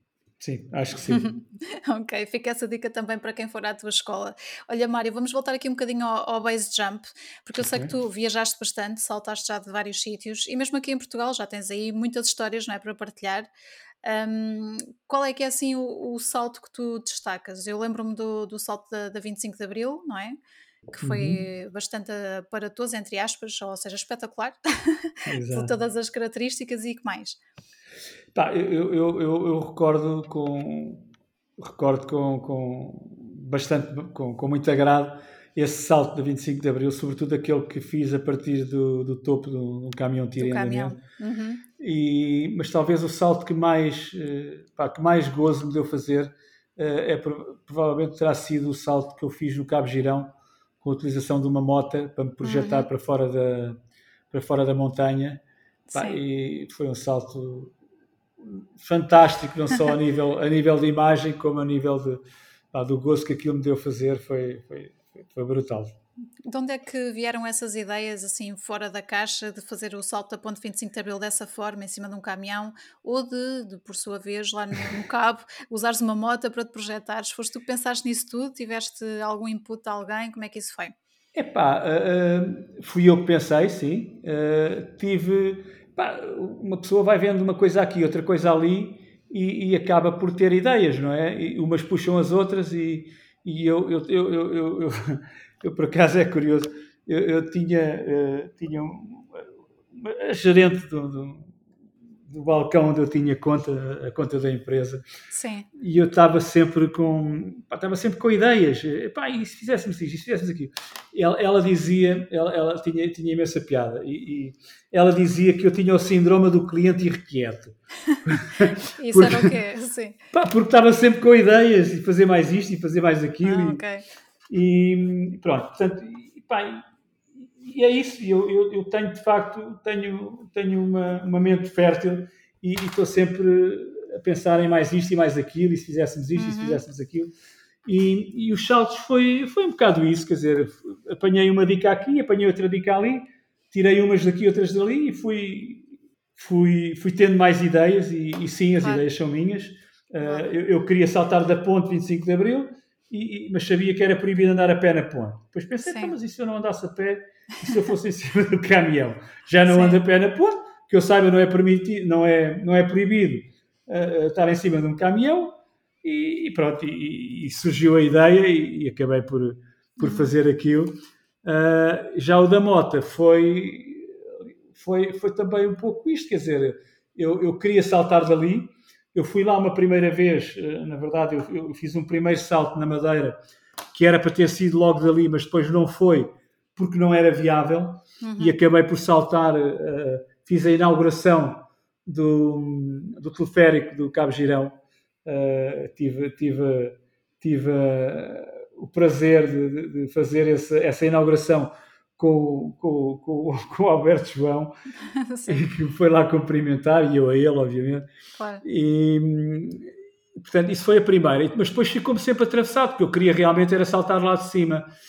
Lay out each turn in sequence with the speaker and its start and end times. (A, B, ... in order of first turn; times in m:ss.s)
0:00.4-0:01.3 A
0:01.1-0:13.5 B
0:07.6-0:07.9 A
0:14.0-0:20.4 B
0:20.9-0:27.4 B
0:21.0-0:21.4 A
0:25.2-0:25.7 A
0:28.3-0:41.0 A
0:40.4-0:41.6 B
0:41.8-0:53.8 A
0:52.4-0:52.9 B
0:54.3-0:55.4 A
0:55.9-0:56.2 B
0:55.9-0:57.7 A
0:58.4-1:02.2 A
1:02.7-1:05.9 A
1:06.4-1:20.9 B
1:21.3-1:41.5 A
1:42.3-1:45.0 A
1:45.3-1:45.7 B
1:45.8-1:57.7 A
1:58.2-1:59.5 A
1:58.9-2:00.2 B
2:00.3-2:03.8 A
2:03.4-2:04.0 B
2:04.5-2:06.8 A
2:07.4-2:17.3 A
2:16.4-2:16.8 B
2:17.8-2:54.2 A
2:30.2-2:30.5 B
2:35.8-2:36.1 B
2:39.7-2:40.0 B
2:50.0-2:50.3 B
2:54.7-3:03.4 A
3:03.9-3:24.7 A
3:08.2-3:08.5 B
3:25.0-3:25.6 B
3:25.5-3:28.0 A
3:28.3-3:28.6 B
3:28.6-3:34.8 A